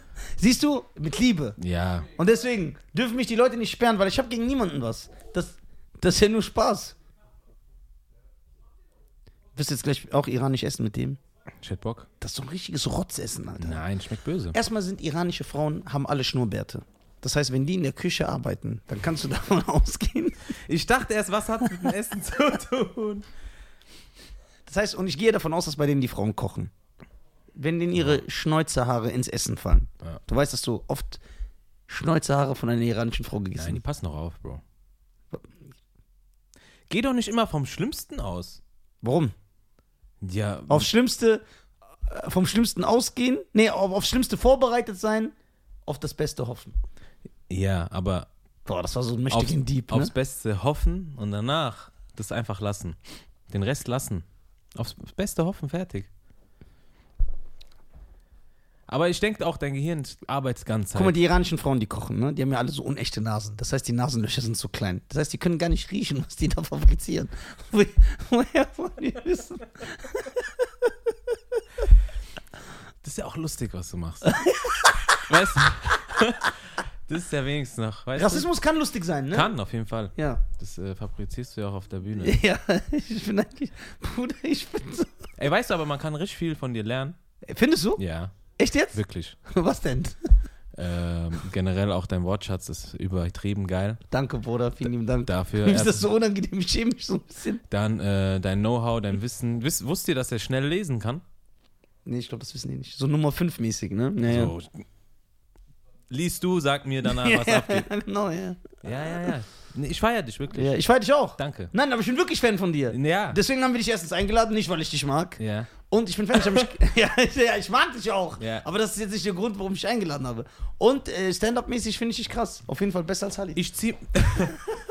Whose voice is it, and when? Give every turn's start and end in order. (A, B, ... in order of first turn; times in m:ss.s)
0:00.4-0:01.6 A
0:01.6-0:02.1 B
0:02.2-0:07.0 A
0:09.6-0:11.2 A
0:11.6-0:12.1 B
0:12.2-0:13.8 A
0:13.6-0:14.6 B
0:14.5-0:20.4 A
0:20.7-0:23.3 B
0:24.7-0:26.7 A
0:27.6-0:31.2 A
0:28.0-0:28.2 B
0:31.9-0:33.8 A
0:33.6-0:34.6 B
0:36.9-0:38.6 B
0:39.0-0:39.3 A
0:40.2-0:40.9 B
0:40.7-0:41.4 A
0:42.1-0:45.3 A
0:45.9-0:46.8 A
0:47.5-0:48.3 B
0:48.7-0:50.1 A
0:49.3-0:53.0 B
0:53.5-0:56.1 B
0:58.9-1:01.2 B
1:01.0-1:10.4 A
1:13.0-1:14.3 B
1:14.2-1:15.2 A
1:15.3-1:16.6 B
1:17.1-1:18.5 B
1:18.2-1:19.6 A
1:19.3-1:22.4 B
1:20.2-1:20.4 A
1:22.2-1:25.2 A
1:25.4-1:27.2 B
1:27.5-1:28.0 A
1:28.0-1:28.4 B
1:28.6-1:30.3 A
1:28.9-1:29.4 B
1:30.8-1:34.0 B
1:34.1-1:37.6 A
1:35.3-1:36.1 B
1:37.7-1:41.2 B
1:42.1-1:44.5 A
1:44.2-1:44.8 B
1:46.1-1:47.9 B
1:47.1-1:48.6 A
1:48.8-1:50.8 B
1:50.5-2:03.6 A
1:51.4-1:51.7 B
1:52.9-1:53.4 B
1:55.4-1:55.7 B
1:56.3-1:56.7 B
1:58.4-1:58.7 B
2:03.6-2:04.6 B